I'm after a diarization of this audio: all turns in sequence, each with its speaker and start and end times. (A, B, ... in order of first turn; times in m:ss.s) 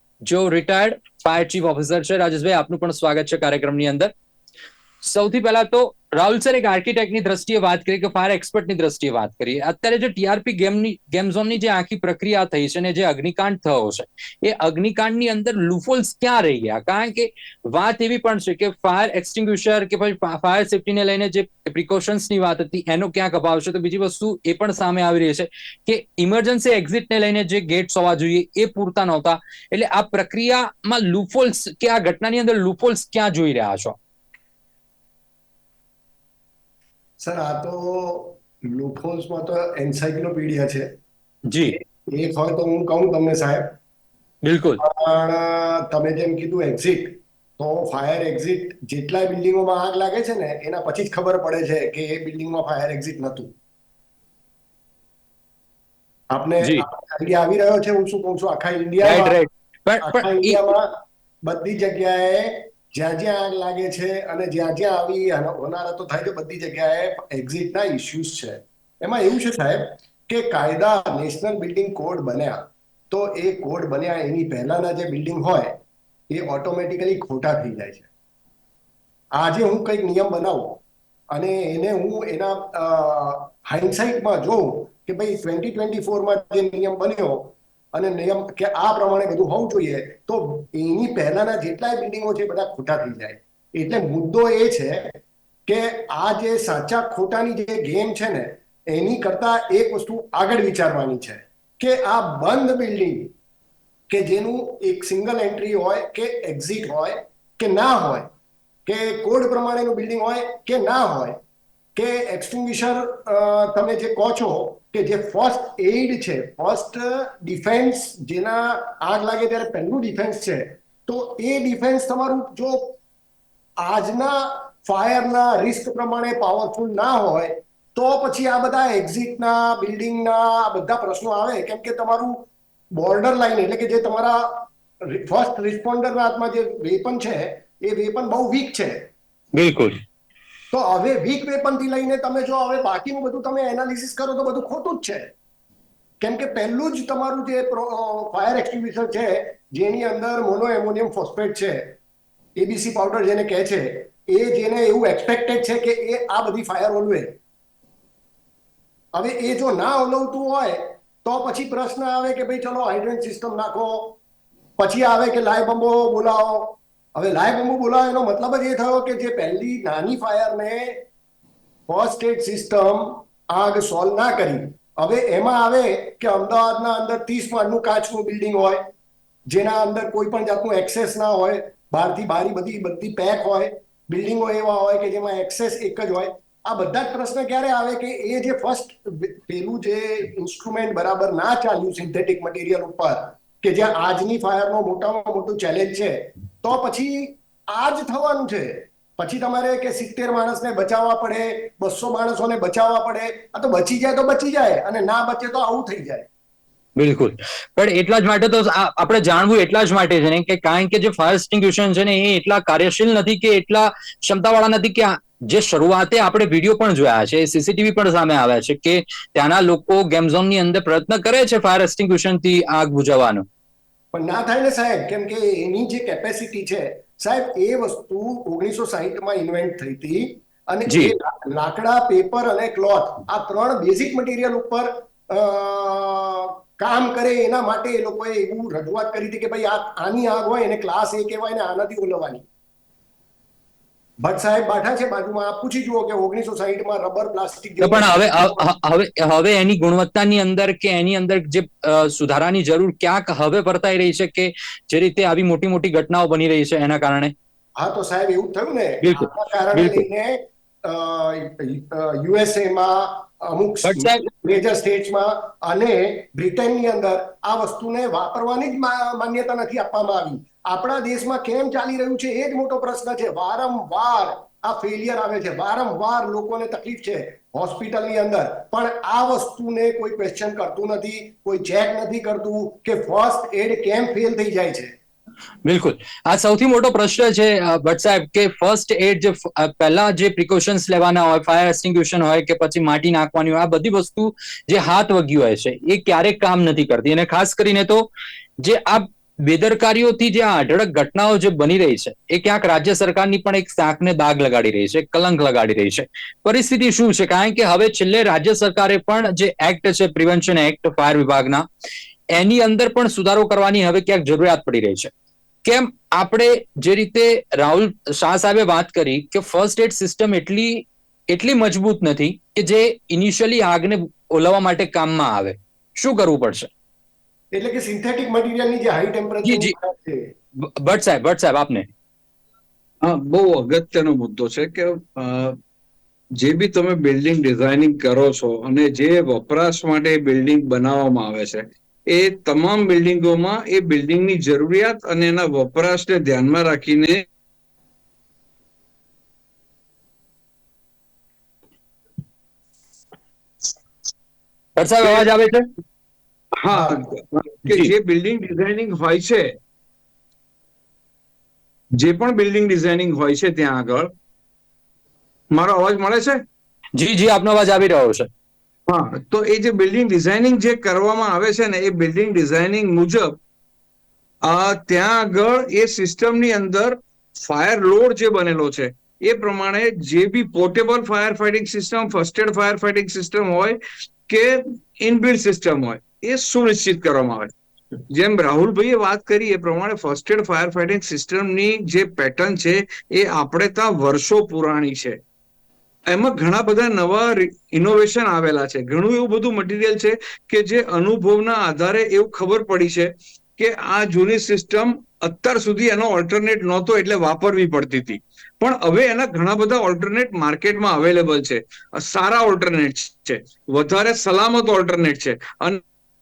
0:00.2-0:04.1 A
0:05.0-0:34.0 A
0:37.2-0:40.9 B
0:41.5-0:41.8 A
0:41.7-0:43.8 B
0:44.4-0:44.8 A
0:44.8-0:53.5 B
0:56.3-0:59.4 B
0:59.0-1:00.7 A
1:00.0-1:15.8 B
1:16.3-1:18.1 B
1:19.3-1:43.3 B
1:44.1-1:48.3 B
1:48.8-1:51.4 B
1:51.9-2:03.0 B
2:03.8-2:19.1 B
2:19.5-2:20.0 A
2:20.7-2:25.3 B
2:26.2-2:31.9 B
2:32.6-2:37.3 B
2:39.1-2:44.2 B
2:44.8-2:51.0 B
2:51.9-2:58.9 B
2:59.5-3:26.3 B
3:27.0-3:43.4 A
3:44.1-4:02.5 B
3:50.9-3:51.1 A
4:04.2-4:08.6 B
4:07.8-4:17.3 A
4:17.8-4:44.9 B
4:19.0-4:20.0 A
4:23.8-4:24.3 A
4:45.6-5:11.6 A
5:12.3-5:15.1 A
5:15.6-5:26.7 A
5:27.5-5:30.3 B
5:29.4-5:29.7 A
5:30.6-5:31.9 A
5:33.0-5:35.6 C
5:36.4-5:47.2 C
5:54.8-5:55.6 A
5:55.0-5:55.3 C
5:56.6-5:59.5 C
5:57.7-5:57.9 A
6:02.0-6:04.1 C
6:05.5-6:06.4 C
6:07.0-6:08.3 A
6:08.9-6:13.4 C
6:14.4-6:27.5 C
6:28.1-6:35.2 C
6:36.1-6:55.8 C